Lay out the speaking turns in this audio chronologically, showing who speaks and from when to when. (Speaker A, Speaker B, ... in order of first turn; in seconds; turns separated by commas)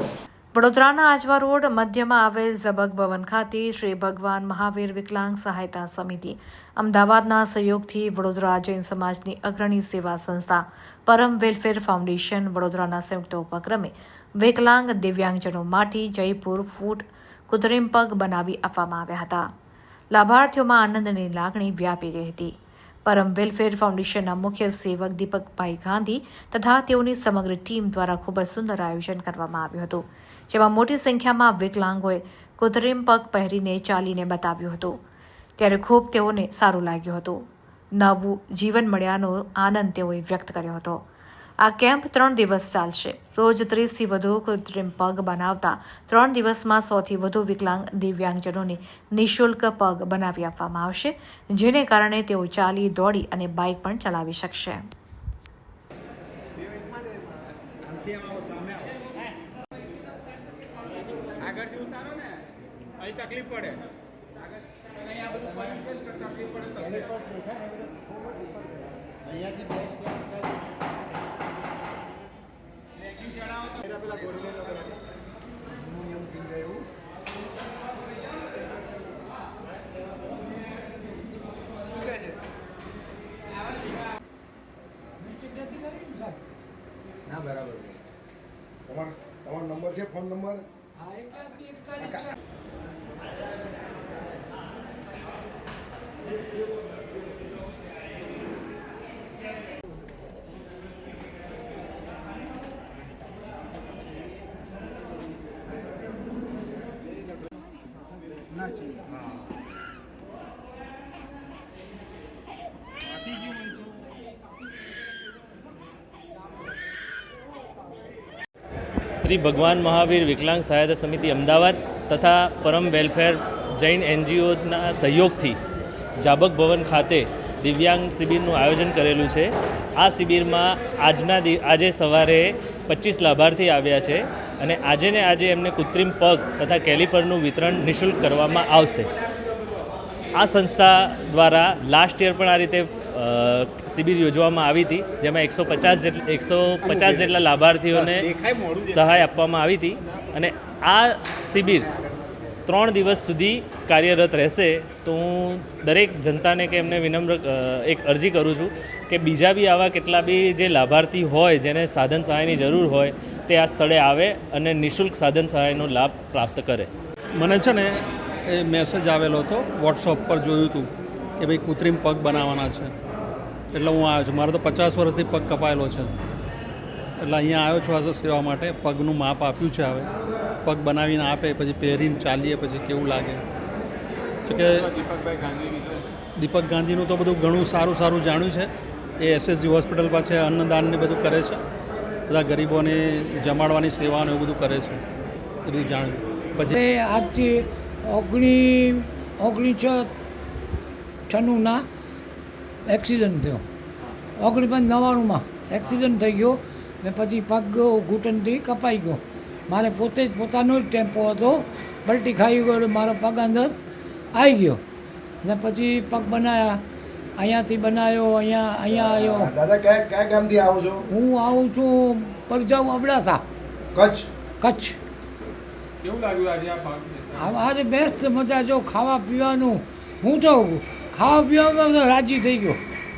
Speaker A: 0.5-19.5, Speaker A: 20.1-22.5, Speaker A: 23.1-35.0, Speaker A: 35.6-37.4, Speaker A: 38.0-41.0, Speaker A: 41.6-54.8, Speaker B: 63.0-63.8, Speaker B: 65.5-66.5, Speaker C: 66.9-67.6, Speaker C: 69.2-70.2, Speaker C: 73.8-75.0, Speaker C: 75.7-76.8, Speaker C: 81.9-82.4, Speaker D: 85.2-86.4, Speaker C: 88.8-90.6, Speaker D: 91.0-92.2, Speaker E: 119.1-125.6, Speaker E: 126.2-139.1, Speaker E: 140.3-148.3, Speaker B: 146.8-147.3, Speaker B: 147.9-149.0, Speaker E: 148.8-151.9, Speaker E: 152.7-166.9, Speaker F: 167.4-172.9, Speaker F: 173.7-176.1, Speaker F: 177.2-180.1, Speaker F: 180.6-183.4, Speaker F: 184.5-184.9, Speaker B: 184.5-186.0, Speaker F: 186.4-191.6, Speaker F: 192.3-195.0, Speaker F: 195.6-196.8, Speaker D: 196.6-200.1, Speaker D: 201.3-201.8, Speaker D: 202.8-203.6, Speaker D: 204.4-213.7, Speaker D: 214.3-214.8, Speaker D: 215.4-216.8, Speaker D: 217.4-219.5, Speaker C: 218.9-221.1, Speaker D: 221.1-223.4, Speaker C: 223.9-224.3, Speaker D: 224.6-225.0, Speaker B: 226.0-227.6, Speaker D: 227.3-232.8